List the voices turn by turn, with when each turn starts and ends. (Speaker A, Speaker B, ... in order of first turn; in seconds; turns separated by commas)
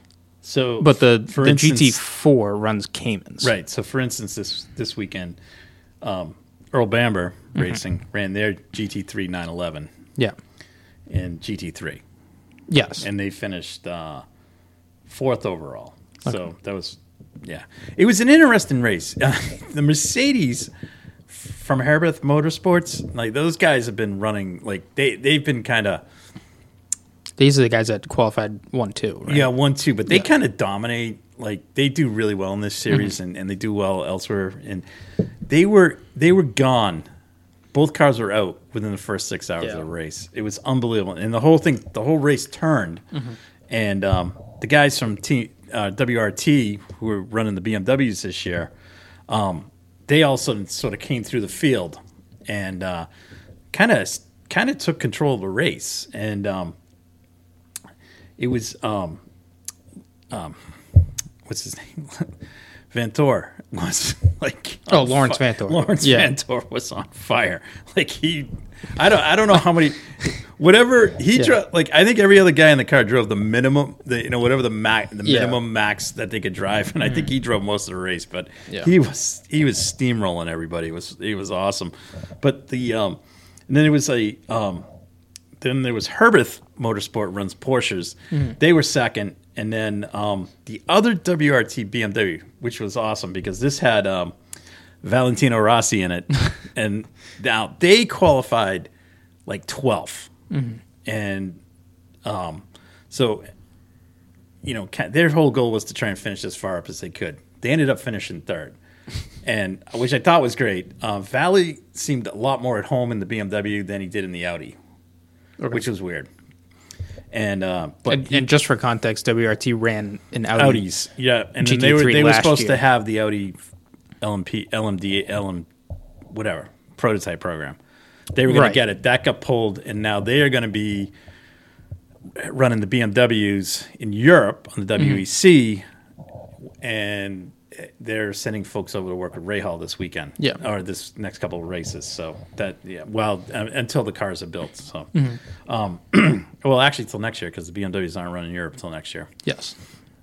Speaker A: 0.4-2.0, Speaker B: 0.8-3.5, Speaker A: 3.4-5.4, Speaker A: 6.0-9.9, Speaker A: 11.1-12.0, Speaker B: 12.7-13.1, Speaker A: 13.0-14.2, Speaker A: 15.1-20.7, Speaker A: 21.3-26.0, Speaker B: 27.4-29.5, Speaker A: 29.3-34.8, Speaker A: 35.5-37.0, Speaker A: 37.7-43.0, Speaker A: 43.7-48.7, Speaker A: 49.3-53.1, Speaker A: 53.7-56.8, Speaker A: 58.4-59.2, Speaker A: 60.3-60.6, Speaker A: 61.4-62.4, Speaker A: 62.9-84.9, Speaker B: 64.9-66.3, Speaker B: 75.2-75.6, Speaker A: 85.6-94.3, Speaker A: 95.0-98.9, Speaker A: 99.5-100.3, Speaker B: 100.5-100.8, Speaker A: 101.0-101.6, Speaker A: 102.2-103.4, Speaker A: 104.6-108.8, Speaker A: 109.4-114.8, Speaker A: 115.7-116.3, Speaker A: 117.3-118.5, Speaker B: 118.1-120.8, Speaker A: 120.6-123.5, Speaker B: 121.6-122.8, Speaker A: 124.2-125.7, Speaker A: 126.3-127.8, Speaker A: 128.3-131.1, Speaker B: 128.5-128.8, Speaker A: 132.3-135.8, Speaker B: 135.0-135.2, Speaker A: 136.8-145.1, Speaker A: 145.6-149.3, Speaker B: 149.4-149.7